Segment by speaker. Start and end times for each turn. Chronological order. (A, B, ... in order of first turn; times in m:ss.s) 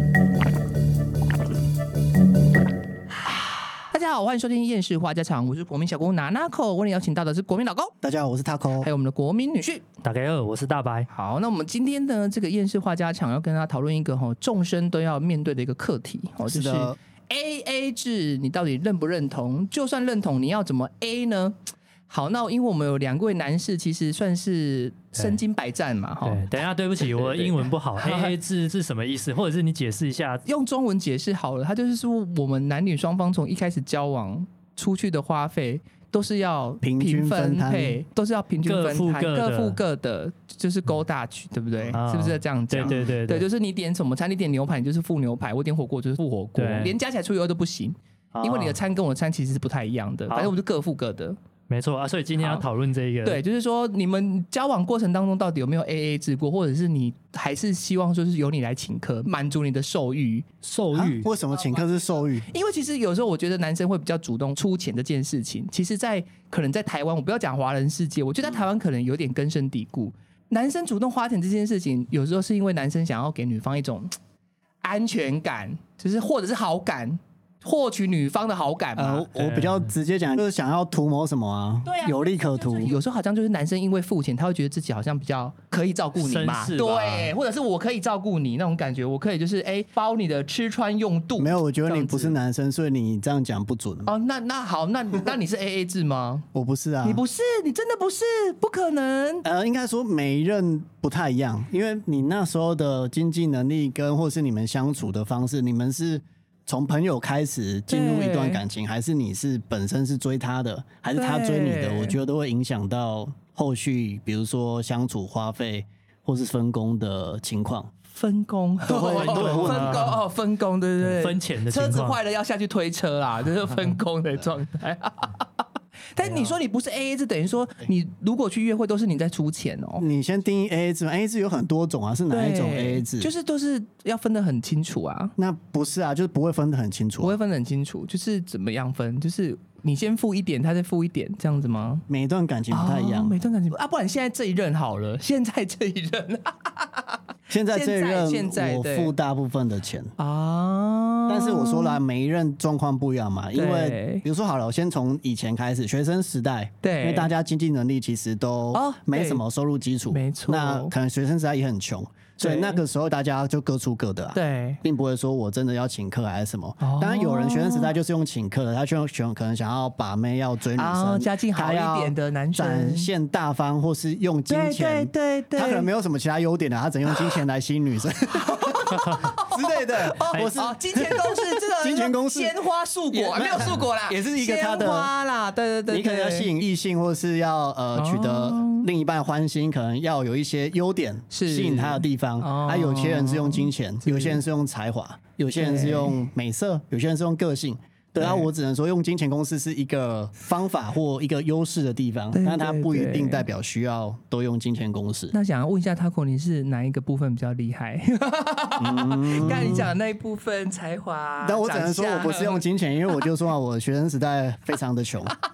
0:03.8-0:07.9 A
0:08.0-0:08.9 B
0:08.8-0:09.9 A
0:10.0-0:11.1 C
0:11.1-0:21.6 A
0:16.5-0:17.0 B
0:22.1-0:26.4 A
0:25.2-0:25.4 C
0:26.2-0:30.4 C
0:27.0-0:28.4 A
0:30.5-0:51.4 A
0:36.8-0:38.0 B
0:38.6-0:39.8 C
0:41.9-0:43.5 C
0:46.6-0:47.0 C
0:48.3-0:48.8 C
0:51.7-0:53.4 C
0:52.4-0:52.6 A
0:53.2-1:00.5 A
1:00.6-1:01.3 C
1:00.9-1:02.5 B
1:01.5-1:14.1 A
1:14.8-1:19.3 A
1:19.0-1:23.0 B
1:19.4-1:19.9 C
1:21.8-1:32.4 A
1:26.2-1:27.3 C
1:31.4-1:34.1 B
1:34.1-1:36.4 A
1:36.5-1:37.2 B
1:37.0-1:39.4 A
1:39.4-1:57.9 B
1:47.9-1:48.6 A
1:51.1-1:52.2 A
1:58.1-2:05.5 A
1:58.9-2:00.2 B
1:59.1-2:00.2 C
2:01.0-2:02.2 C
2:06.2-2:10.0 A
2:10.0-2:13.3 B
2:12.3-2:15.3 A
2:15.4-2:17.4 B
2:17.2-2:22.0 A
2:22.1-2:23.4 B
2:22.7-2:27.2 A
2:27.5-2:30.1 B
2:27.7-2:29.1 A
2:30.2-2:32.0 A
2:31.3-3:02.6 B
2:33.6-2:34.2 A
2:36.8-2:37.3 A
2:38.7-2:39.4 A
2:40.1-2:40.9 A
2:42.4-2:42.8 A
2:44.3-2:44.8 A
2:46.8-2:47.9 A
2:50.8-2:53.1 A
2:54.5-2:55.9 A
2:58.3-3:06.6 A
3:03.1-3:05.1 B
3:05.9-3:25.3 B
3:08.0-3:08.9 A
3:11.3-3:14.4 A
3:15.6-3:16.2 A
3:18.2-3:18.5 A
3:22.3-3:23.5 A
3:25.3-3:33.2 A
3:28.8-3:29.9 B
3:31.4-3:35.4 B